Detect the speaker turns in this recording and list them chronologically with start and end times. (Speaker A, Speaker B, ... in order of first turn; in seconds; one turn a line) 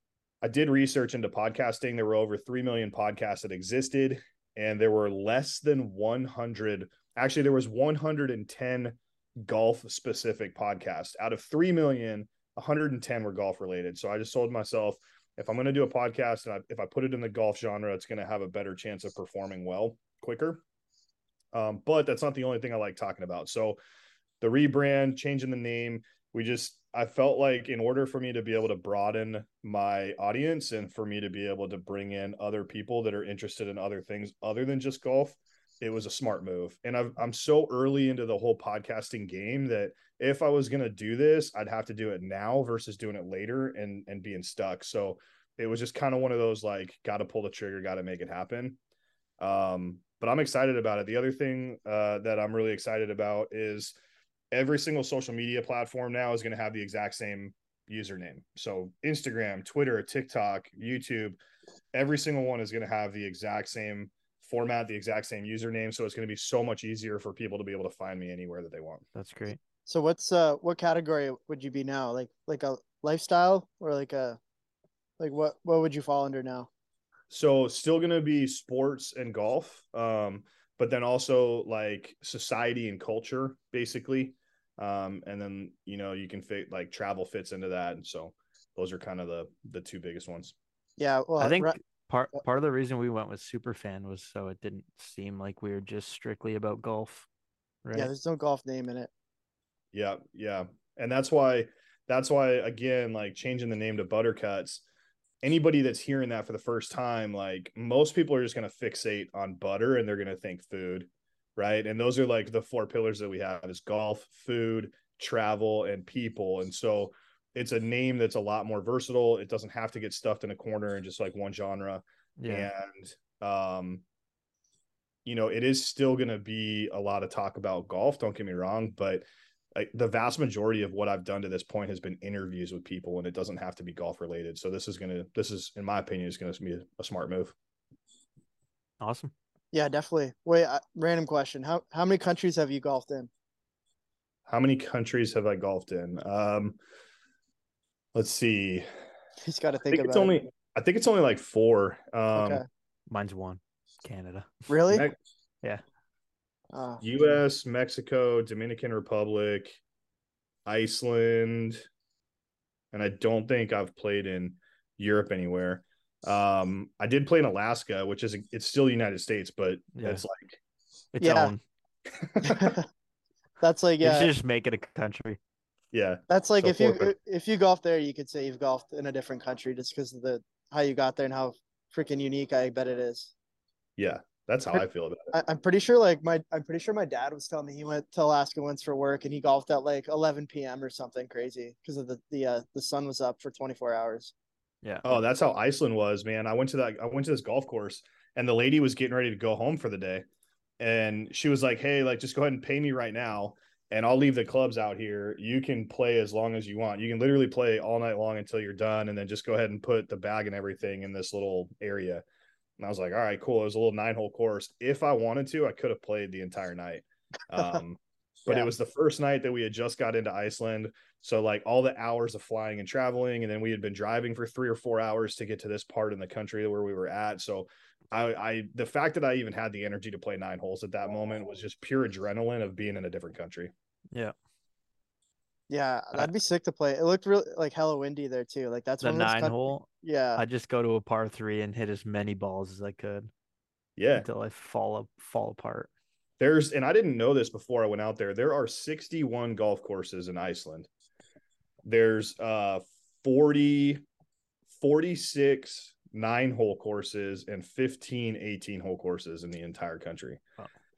Speaker A: 0.4-20.6
Speaker A: 21.5-23.8
Speaker A: 24.4-48.8
Speaker A: 49.4-54.0
Speaker A: 54.5-61.4
Speaker A: 61.9-69.0
Speaker B: 69.1-69.6
Speaker C: 69.9-74.4
Speaker C: 75.2-76.7
Speaker A: 77.3-90.5
Speaker C: 91.0-91.8
Speaker B: 91.4-97.2
Speaker B: 97.8-98.1
Speaker C: 97.9-99.1
Speaker A: 99.9-104.8
Speaker A: 105.4-124.0
Speaker B: 122.4-122.7
Speaker A: 125.2-129.2
Speaker A: 129.7-137.5
Speaker B: 139.0-139.3
Speaker C: 139.7-143.3
Speaker A: 144.5-146.8
Speaker A: 148.1-148.9
Speaker C: 149.4-150.3
Speaker A: 149.9-152.6
Speaker C: 152.3-152.6
Speaker B: 153.1-154.7
Speaker C: 154.7-155.1
Speaker A: 154.9-155.1
Speaker C: 156.7-157.0
Speaker A: 157.0-159.8
Speaker A: 160.7-161.8
Speaker A: 162.9-170.6
Speaker B: 169.9-170.2
Speaker B: 171.1-171.6
Speaker C: 171.2-171.5
Speaker A: 172.1-172.8
Speaker C: 172.4-172.8
Speaker C: 173.6-174.3
Speaker B: 174.0-175.4
Speaker A: 175.9-177.1
Speaker C: 176.3-183.3
Speaker A: 184.0-185.3
Speaker C: 185.3-194.3
Speaker B: 194.8-195.1
Speaker A: 195.0-200.2
Speaker A: 200.8-212.2
Speaker A: 212.8-233.7
Speaker C: 235.7-240.4
Speaker B: 239.0-243.3
Speaker A: 244.0-244.3
Speaker B: 244.2-245.9
Speaker A: 246.4-250.9
Speaker A: 251.8-254.0
Speaker A: 254.7-260.4